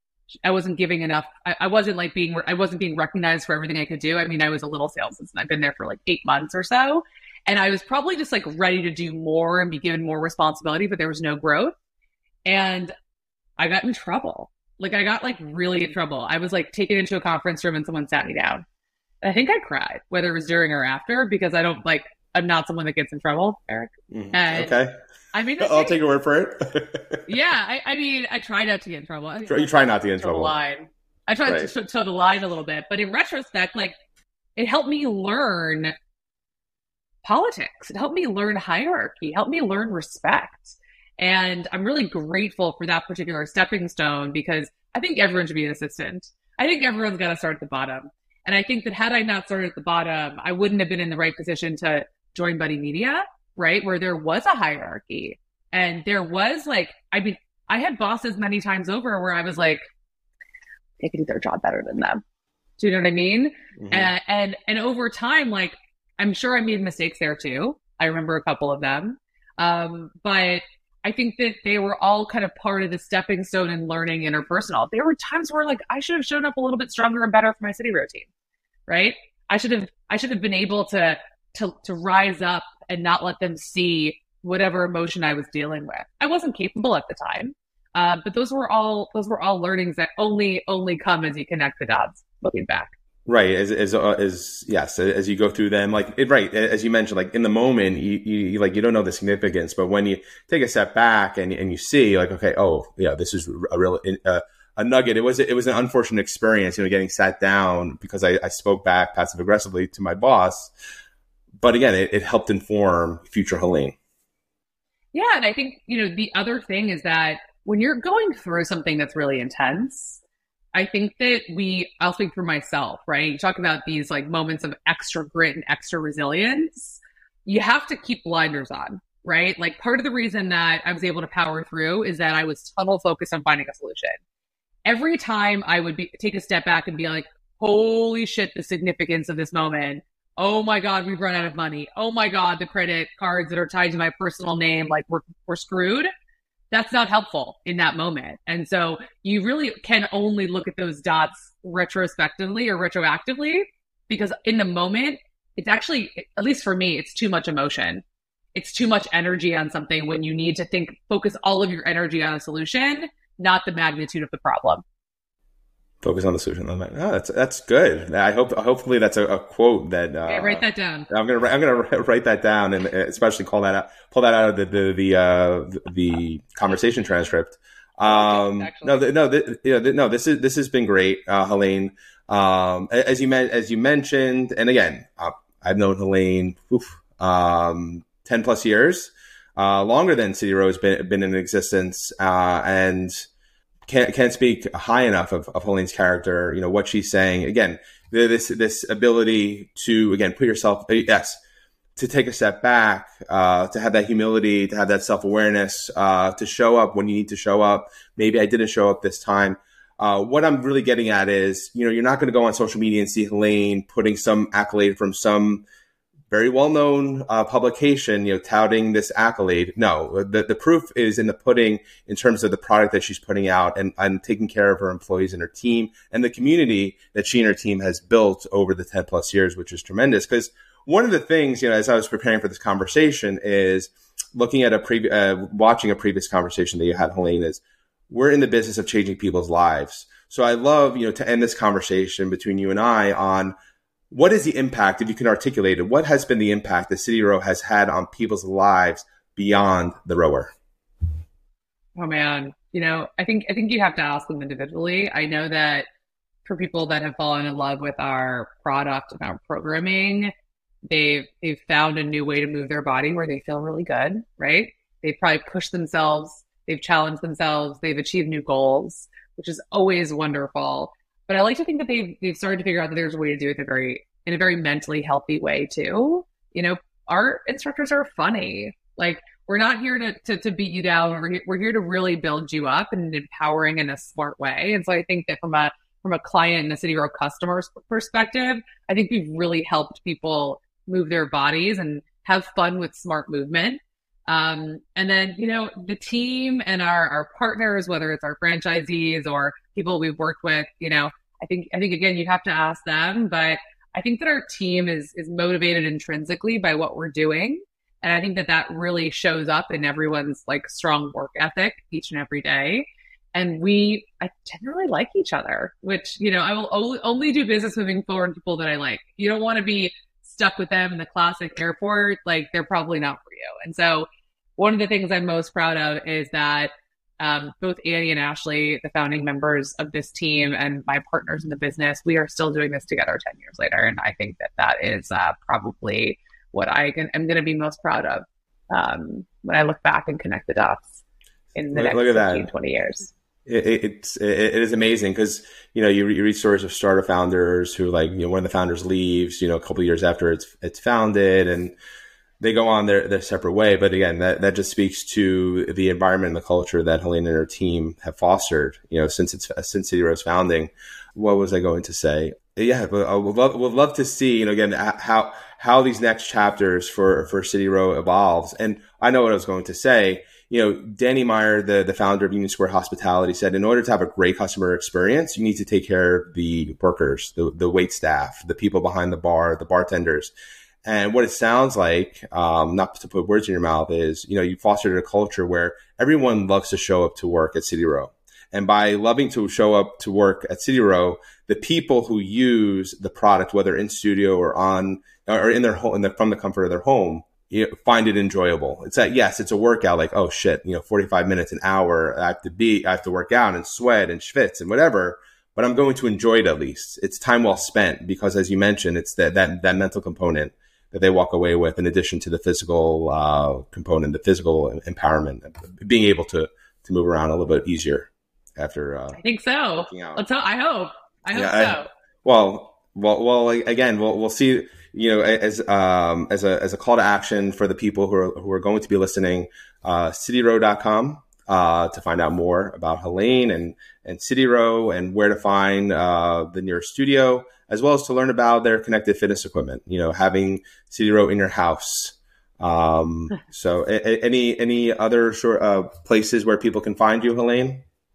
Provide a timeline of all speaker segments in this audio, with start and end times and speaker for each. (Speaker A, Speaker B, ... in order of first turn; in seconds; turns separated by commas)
Speaker A: 0.4-11.7, Speaker A: 12.4-12.9, Speaker A: 13.6-18.6, Speaker A: 19.2-24.7, Speaker B: 24.1-24.9, Speaker A: 25.3-26.0, Speaker B: 25.6-27.2, Speaker A: 27.3-33.9, Speaker B: 29.4-30.5, Speaker B: 31.4-31.7, Speaker A: 34.5-35.9, Speaker A: 37.2-59.8, Speaker A: 61.0-62.2, Speaker A: 62.8-78.3, Speaker B: 63.8-64.1, Speaker A: 78.9-92.9, Speaker B: 93.2-110.7, Speaker B: 111.6-114.0, Speaker A: 115.1-120.2, Speaker A: 120.7-134.2, Speaker A: 134.8-146.1, Speaker A: 146.7-158.0, Speaker A: 158.5-164.8, Speaker B: 166.0-193.3, Speaker A: 170.3-171.1, Speaker A: 178.0-179.0, Speaker B: 193.9-201.4, Speaker B: 201.9-215.6, Speaker B: 216.3-243.5, Speaker B: 244.1-250.5, Speaker A: 252.0-255.8, Speaker A: 256.4-260.3, Speaker A: 260.9-341.0, Speaker A: 341.5-343.1, Speaker B: 341.7-342.5, Speaker B: 343.4-351.8, Speaker B: 352.4-380.3, Speaker B: 380.8-419.2, Speaker A: 419.1-421.9, Speaker B: 419.8-420.2, Speaker B: 421.3-447.8